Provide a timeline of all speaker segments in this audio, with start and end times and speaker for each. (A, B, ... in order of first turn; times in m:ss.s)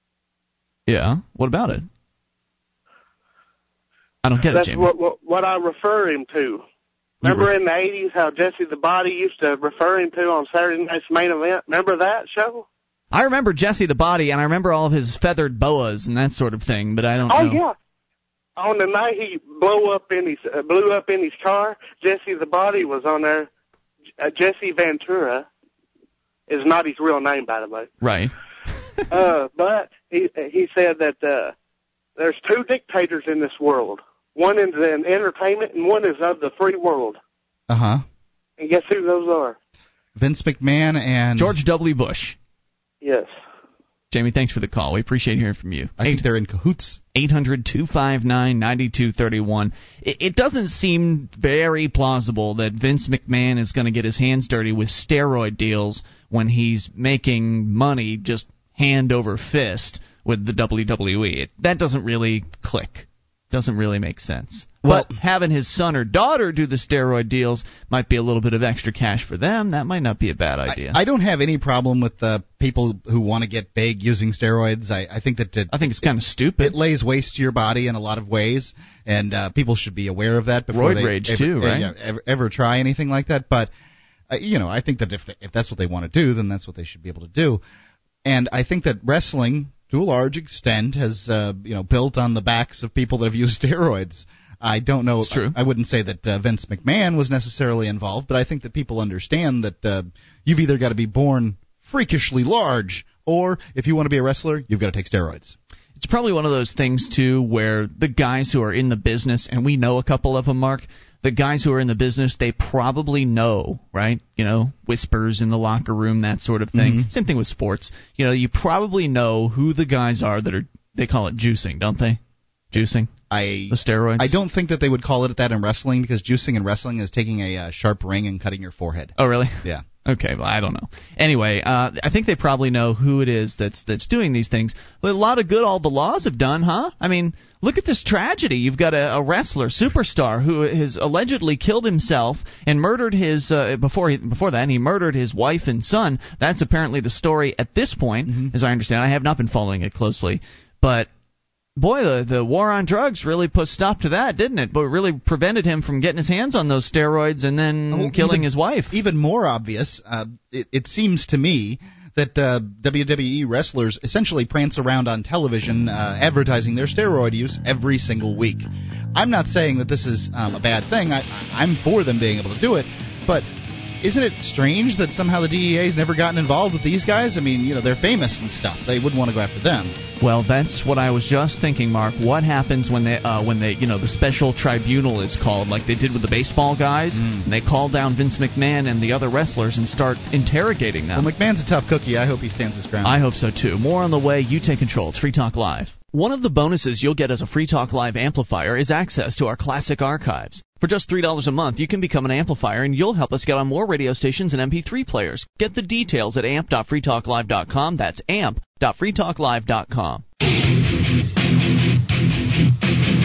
0:00.9-0:01.8 A
0:04.2-0:04.9 A
0:04.5-0:06.6 B
0:07.2-0:12.6 B
0:07.2-0:07.5 A
0:13.1-0:17.6 A
0:17.3-0:17.7 B
0:18.6-0:23.5 B
0:24.2-0:25.5 B
0:26.5-0:27.9 B
0:28.0-0:28.3 A
0:29.1-0:31.5 B
0:32.2-0:37.2 B
0:37.7-0:38.0 C
0:38.6-0:39.6 B
0:40.2-0:41.6 C
0:41.4-0:42.4 A
0:43.0-0:43.3 B
0:44.1-0:46.2 A
0:46.0-0:47.0 C
0:47.1-1:11.0 A
1:04.8-1:05.1 C
1:10.7-1:23.7 C
1:15.7-1:16.8 A
1:20.7-1:21.9 A
1:24.3-1:27.6 C
1:28.2-1:45.6 C
1:35.2-1:35.6 A
1:46.0-2:02.2 A
1:56.7-1:57.1 C
2:02.7-2:03.1 A
2:03.3-2:09.8 C
2:03.7-2:04.3 A
2:09.2-2:31.1 A
2:28.3-2:28.5 C
2:31.8-2:39.0 A
2:37.9-2:53.4 C
2:54.0-3:00.0 C
3:00.2-3:11.3 A
3:07.1-3:07.4 C
3:11.1-3:13.2 C
3:13.0-3:30.2 A